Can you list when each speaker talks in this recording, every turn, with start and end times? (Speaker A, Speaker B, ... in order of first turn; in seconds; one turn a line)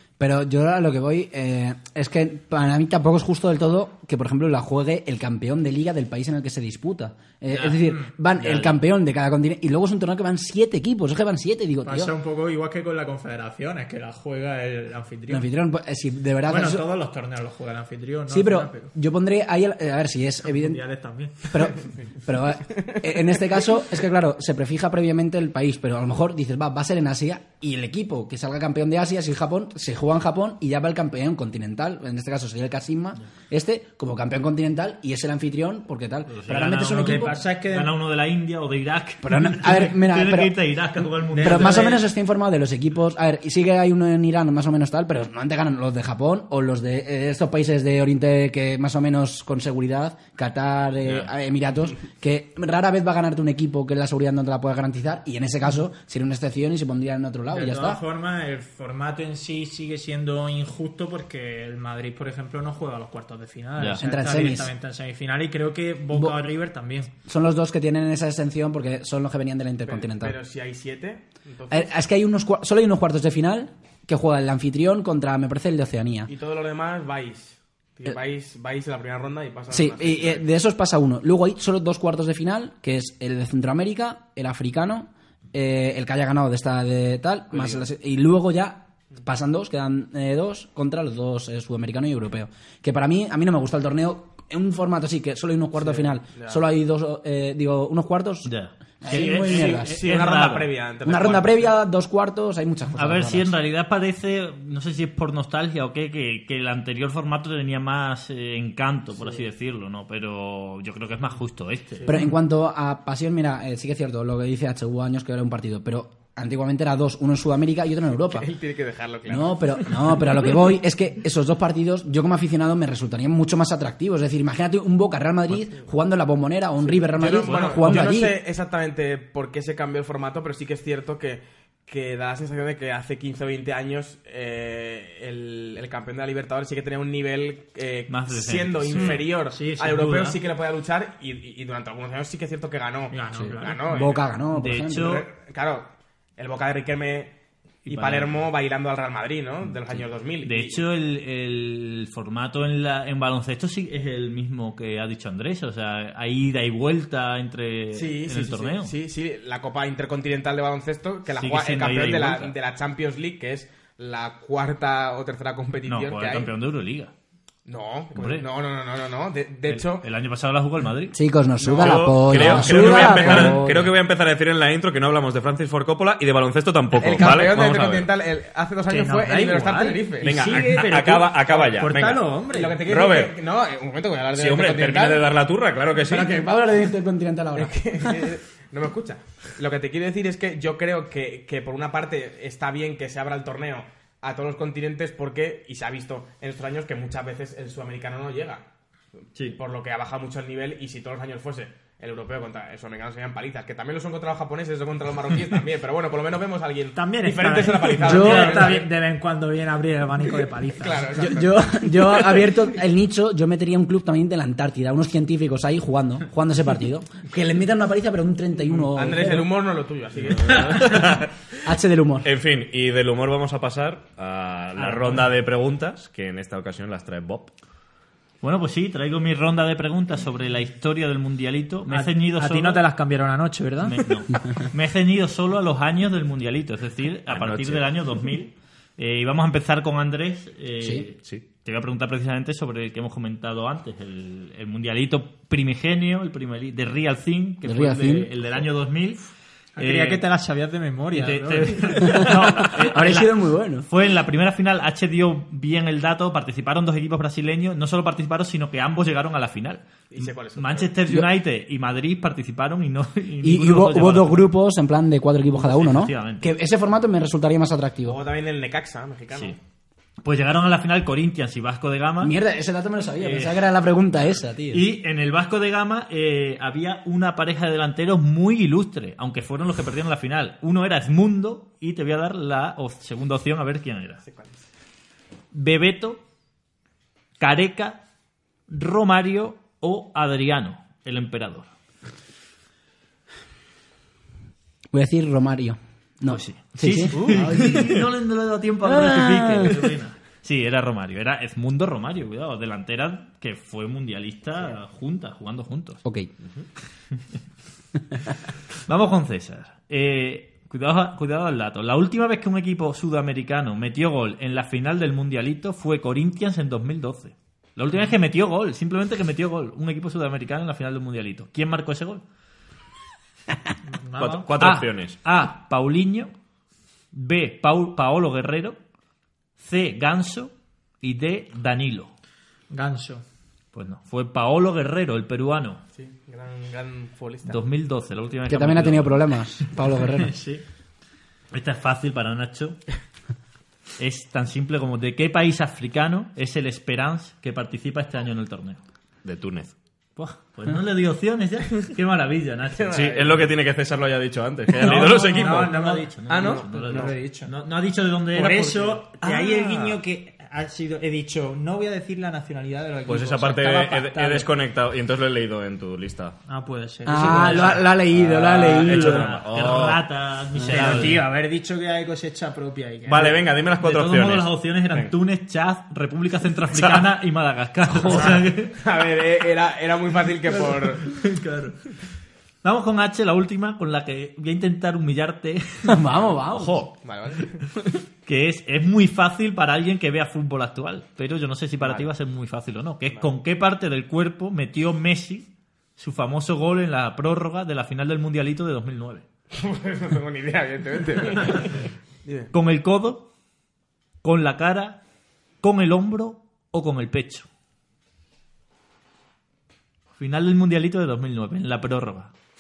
Speaker A: 0.2-12.1
Speaker B: 7.5-7.8
Speaker B: 8.4-8.7
Speaker C: 11.8-15.4
Speaker A: 15.3-16.8
Speaker C: 16.5-18.9
Speaker A: 18.3-20.8
Speaker C: 20.4-21.5
Speaker A: 21.5-37.4
Speaker B: 36.3-41.9
Speaker C: 36.9-37.9
Speaker A: 39.2-40.6
Speaker C: 41.3-42.0
Speaker A: 41.4-58.0
Speaker C: 57.5-67.1
Speaker A: 64.0-64.7
Speaker A: 67.3-70.4
Speaker D: 69.9-71.9
Speaker A: 71.7-76.3
Speaker D: 76.3-80.4
Speaker A: 79.7-100.0
Speaker D: 87.5-87.8
Speaker D: 95.8-96.6
Speaker B: 98.4-100.7
Speaker D: 99.1-101.7
Speaker A: 101.0-103.5
Speaker B: 102.9-112.2
Speaker A: 112.1-118.5
Speaker D: 118.2-120.0
Speaker A: 119.3-128.4
Speaker D: 126.8-144.2
Speaker B: 127.3-128.2
Speaker B: 138.1-139.3
Speaker C: 138.9-140.4
Speaker C: 143.1-144.1
Speaker A: 143.4-145.2
Speaker B: 144.5-145.2
Speaker D: 145.0-147.3
Speaker B: 147.8-148.3
Speaker D: 147.9-150.8
Speaker B: 150.4-158.9
Speaker D: 157.9-166.5
Speaker B: 161.3-162.5
Speaker B: 165.9-167.1
Speaker D: 167.7-170.1
Speaker B: 168.1-168.4
Speaker B: 169.7-171.2
Speaker A: 171.1-173.9
Speaker E: 171.7-178.1
Speaker D: 171.7-173.6
Speaker D: 176.9-180.5
Speaker C: 178.9-182.8
Speaker E: 180.2-183.4
Speaker D: 182.5-185.3
Speaker E: 184.3-186.3
Speaker A: 186.1-188.3
Speaker D: 187.6-198.7
Speaker D: 199.5-208.9
Speaker C: 206.9-211.3
Speaker A: 208.0-208.8
Speaker D: 210.8-211.8
Speaker A: 211.2-219.5
Speaker D: 218.9-221.0
Speaker E: 220.4-221.4
Speaker A: 221.6-222.3
Speaker E: 222.2-227.5
Speaker C: 224.8-225.2
Speaker B: 228.4-232.8
Speaker C: 231.9-234.0
Speaker B: 233.8-250.2
Speaker E: 237.3-237.8
Speaker A: 247.6-248.3
Speaker C: 249.8-252.2
Speaker B: 251.1-264.5
Speaker A: 252.0-253.9
Speaker D: 260.1-260.9
Speaker A: 263.4-268.2
Speaker B: 265.5-266.5
Speaker D: 268.1-269.6
Speaker B: 270.2-272.4
Speaker A: 272.2-274.9
Speaker B: 273.2-273.7
Speaker B: 274.7-284.2
Speaker D: 284.2-284.7
Speaker B: 285.5-286.2
Speaker B: 287.4-288.0
Speaker B: 288.7-291.7
Speaker A: 294.9-298.0
Speaker B: 296.3-306.0
Speaker C: 297.2-297.7
Speaker A: 298.8-299.9
Speaker A: 306.1-306.3
Speaker B: 308.9-322.2
Speaker C: 323.9-324.5
Speaker E: 324.2-325.2
Speaker B: 324.6-326.3
Speaker B: 327.1-328.8
Speaker B: 329.6-332.1
Speaker C: 332.7-333.2
Speaker B: 333.7-335.8
Speaker D: 335.9-337.6
Speaker B: 337.5-339.7
Speaker A: 338.5-340.3
Speaker C: 340.1-340.6
Speaker B: 341.5-342.8
Speaker B: 344.0-348.8
Speaker E: 349.2-349.7
Speaker B: 350.2-353.2
Speaker D: 352.7-353.5
Speaker E: 352.9-355.8
Speaker B: 354.8-359.1
Speaker C: 354.8-357.5
Speaker D: 356.3-357.1
Speaker C: 358.3-364.4
Speaker E: 359.2-360.0
Speaker E: 363.1-366.4
Speaker C: 366.5-367.9
Speaker A: 367.1-369.3
Speaker E: 368.1-370.0
Speaker B: 368.6-371.2
Speaker A: 370.6-371.0
Speaker C: 370.7-373.4
Speaker E: 373.1-375.1
Speaker B: 373.8-378.8
Speaker E: 376.7-377.1
Speaker D: 378.1-381.1
Speaker C: 381.4-381.7
Speaker B: 382.6-386.1
Speaker A: 385.9-386.8
Speaker E: 386.5-386.9
Speaker D: 387.0-387.7
Speaker B: 388.2-399.2
Speaker D: 391.8-392.1
Speaker D: 399.5-402.5
Speaker B: 402.5-403.3
Speaker B: 404.2-405.0
Speaker B: 405.6-407.5
Speaker B: 410.2-412.3